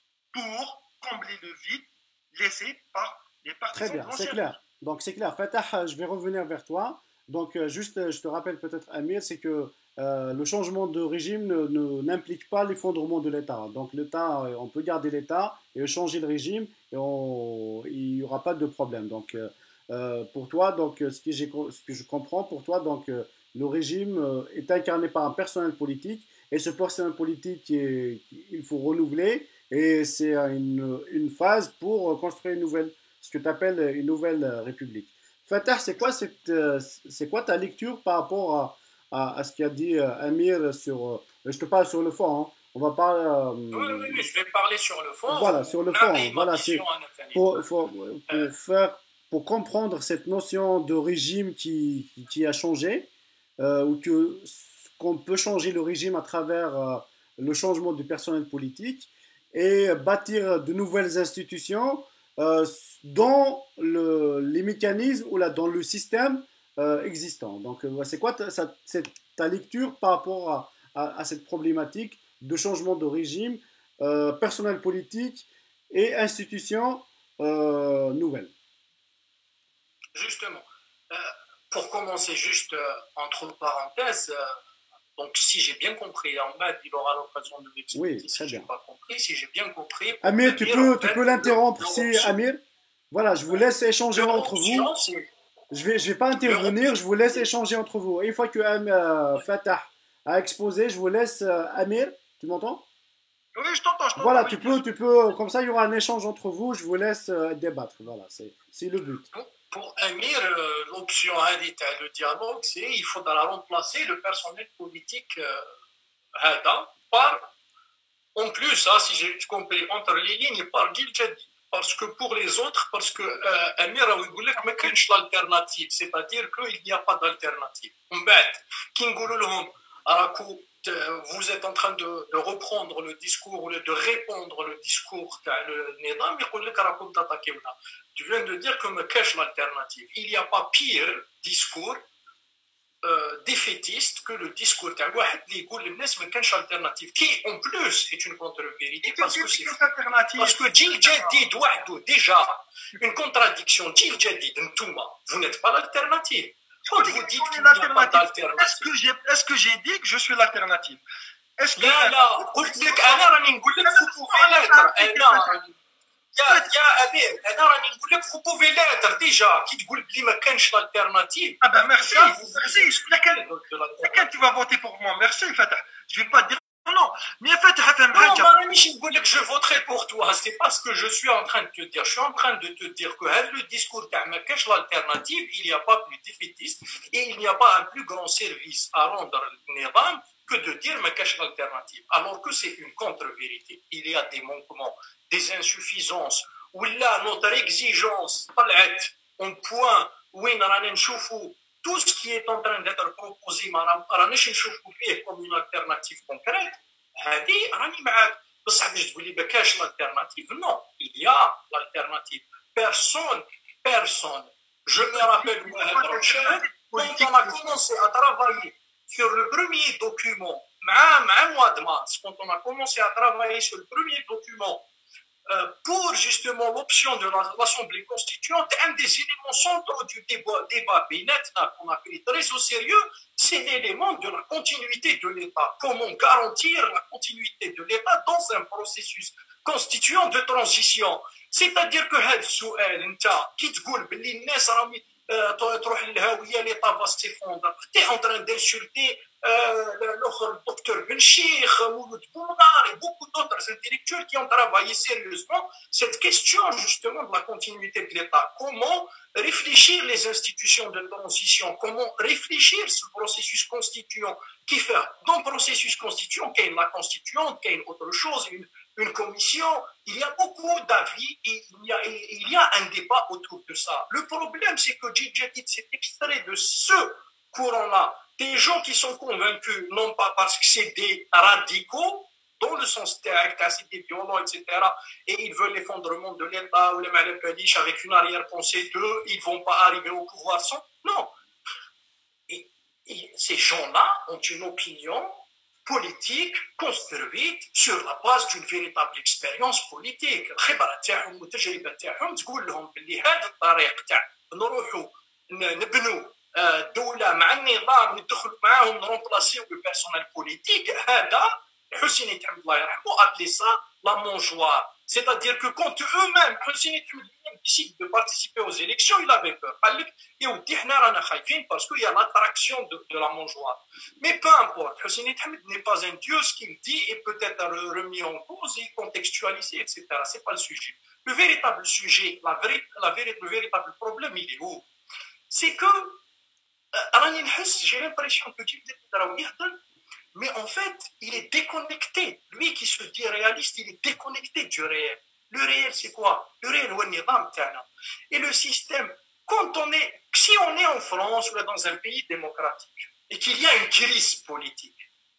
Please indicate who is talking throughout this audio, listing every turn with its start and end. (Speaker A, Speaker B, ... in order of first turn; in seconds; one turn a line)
Speaker A: 0.3-4.6
Speaker B: 3.7-44.2
Speaker C: 43.7-47.6
Speaker B: 45.3-78.5
Speaker C: 80.1-84.5
Speaker C: 85.2-92.4
Speaker B: 87.9-88.7
Speaker B: 90.2-92.6
Speaker B: 93.1-94.9
Speaker C: 94.1-95.3
Speaker B: 95.7-102.8
Speaker C: 96.4-97.5
Speaker A: 103.5-104.8
Speaker B: 104.2-109.3
Speaker C: 109.3-115.6
Speaker C: 116.3-117.5
Speaker C: 118.3-142.0
Speaker A: 124.6-124.9
Speaker C: 143.0-149.8
Speaker A: 149.0-151.4
Speaker C: 150.4-158.9
Speaker A: 156.8-161.0
Speaker A: 161.6-163.3
Speaker C: 161.8-165.8
Speaker A: 163.8-165.6
Speaker C: 166.3-174.4
Speaker A: 166.4-166.7
Speaker A: 171.6-173.5
Speaker A: 174.0-178.5
Speaker C: 178.1-224.9
Speaker A: 214.9-217.7
Speaker C: 225.5-291.3
Speaker C: 292.5-334.9
Speaker C: 335.5-336.2
Speaker C: 336.9-339.8
Speaker C: 340.3-355.1